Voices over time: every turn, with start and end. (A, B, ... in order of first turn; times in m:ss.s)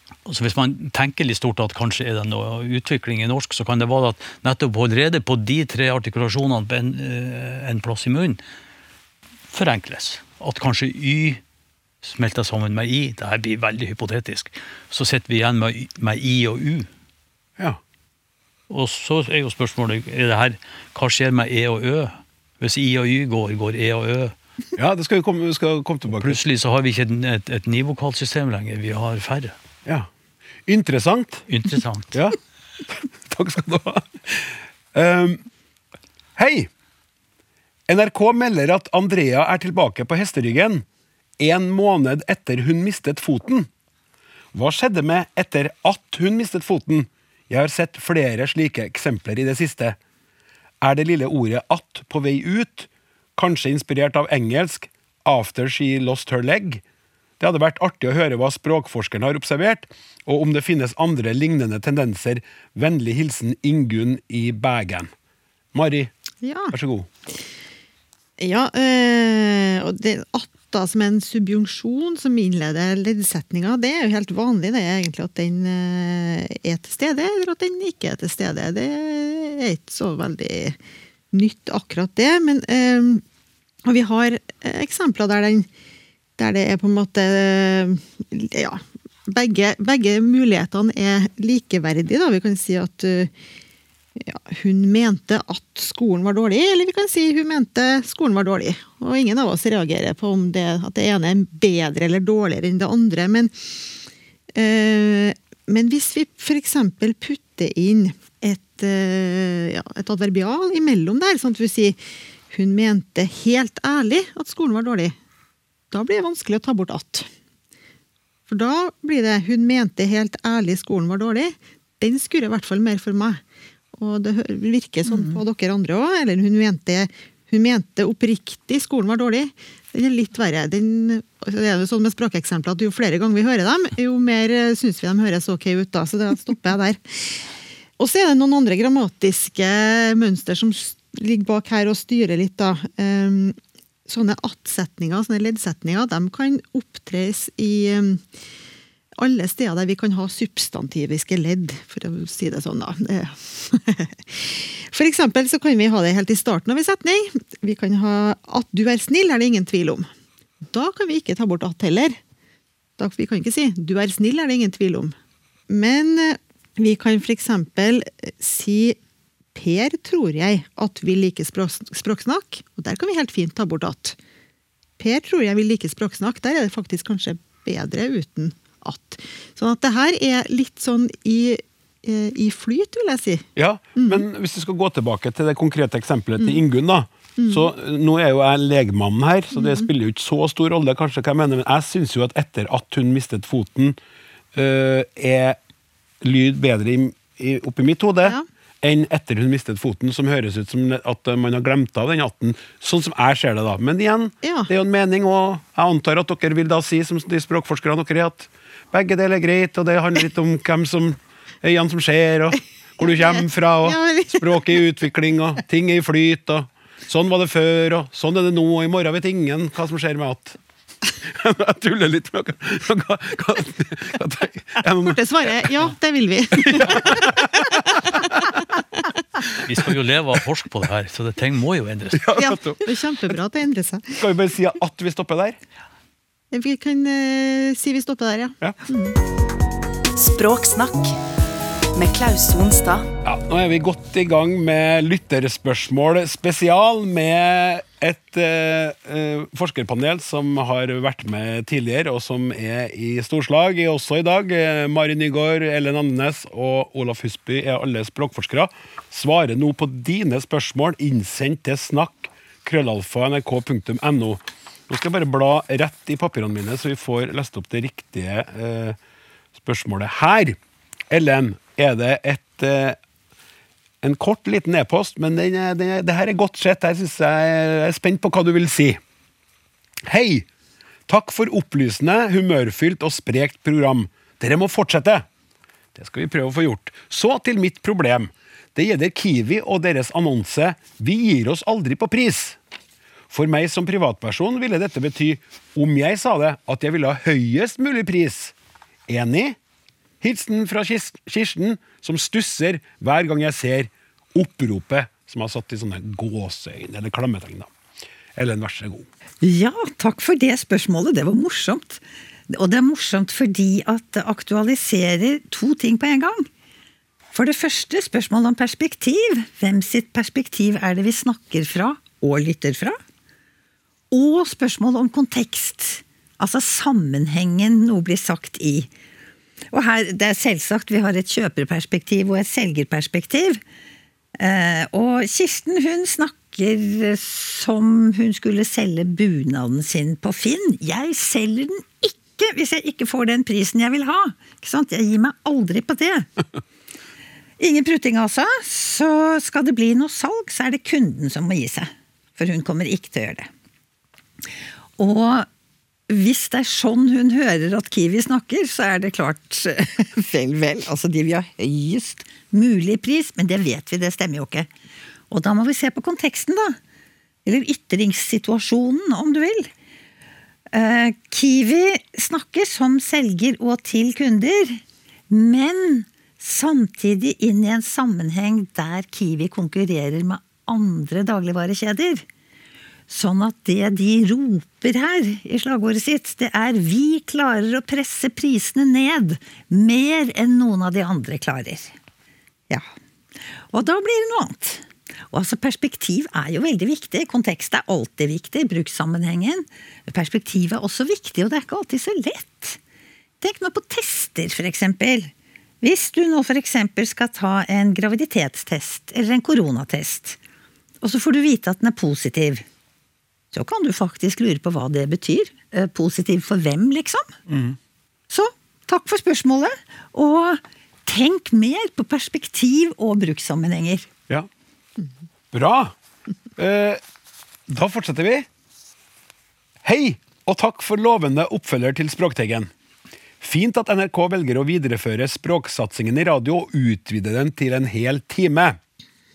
0:00.2-0:08.4 A
0:09.5-0:11.4 A
0:12.0-0:16.9 A
0:18.7-0:24.3 A
0:24.8-0:26.4 B
0:26.1-0:29.6 A
0:30.7-0:31.4 B
0:31.5-0:32.2 A
0:32.1-0:35.4 B
0:36.4-0:36.7 B
0:37.9-0:40.8 B
0:41.4-0:43.7 B
0:44.5-0:50.0 B
0:50.8-0:56.8 B
0:57.4-1:05.1 B
1:05.7-1:06.1 B
1:06.4-1:06.7 C
1:06.7-1:07.1 B
1:08.4-1:20.8 C
1:21.3-1:23.2 C
1:23.8-1:25.7 C
1:26.4-1:33.3 C
1:34.2-1:43.6 C
1:44.5-1:55.1 C
1:55.9-1:57.3 C
1:58.5-2:03.4 C
2:03.9-2:17.4 C
2:05.0-2:05.4 D
2:18.0-2:23.6 C
2:24.1-2:28.2 C
2:29.2-2:40.1 C
2:40.7-2:42.2 C
2:43.0-2:45.1 C
2:45.7-2:49.0 C
2:49.5-2:54.2 C
2:55.0-3:04.2 C
3:03.6-3:14.0 B
3:07.4-3:07.6 C
3:09.6-3:09.9 C
3:14.5-3:15.6 B
3:16.2-3:40.6 B
3:24.4-3:24.7 C
3:33.0-3:34.4 C
3:41.2-3:45.7 B
3:45.1-3:48.8 C
3:46.6-3:48.4 B
3:49.6-3:52.4 A
3:52.1-3:52.8 B
3:52.4-3:54.2 C
3:54.2-3:55.6 B
3:56.5-3:59.2 C
4:00.2-4:01.2 E
4:01.9-4:03.1 E
4:03.2-4:29.0 B
4:29.6-4:30.6 B
4:31.1-4:33.0 B
4:34.0-4:39.0 B
4:40.0-4:40.5 B
4:41.1-4:45.2 B
4:45.9-4:52.6 B
4:53.3-4:58.5 B
4:59.1-4:59.6 B
5:00.2-5:07.7 B
5:08.3-5:09.1 B
5:09.4-5:16.5 D
5:17.3-5:23.0 D
5:24.1-5:28.9 D
5:29.7-5:33.6 D
5:34.4-5:46.3 D
5:47.6-5:53.5 D
5:55.0-5:55.4 D
5:56.1-6:04.7 D
6:05.3-6:06.8 D
6:07.4-6:09.7 D
6:10.7-6:22.2 D
6:23.1-6:31.9 D
6:33.7-6:42.8 D
6:43.4-6:45.3 D
6:45.8-6:50.4 D
6:51.0-6:52.6 D
6:53.5-6:57.4 D
6:57.5-6:57.8 B
6:58.3-7:04.1 D
7:05.5-7:05.9 B
7:06.6-7:07.0 B
7:07.7-7:08.5 B
7:09.8-7:12.7 B
7:13.4-7:18.8 B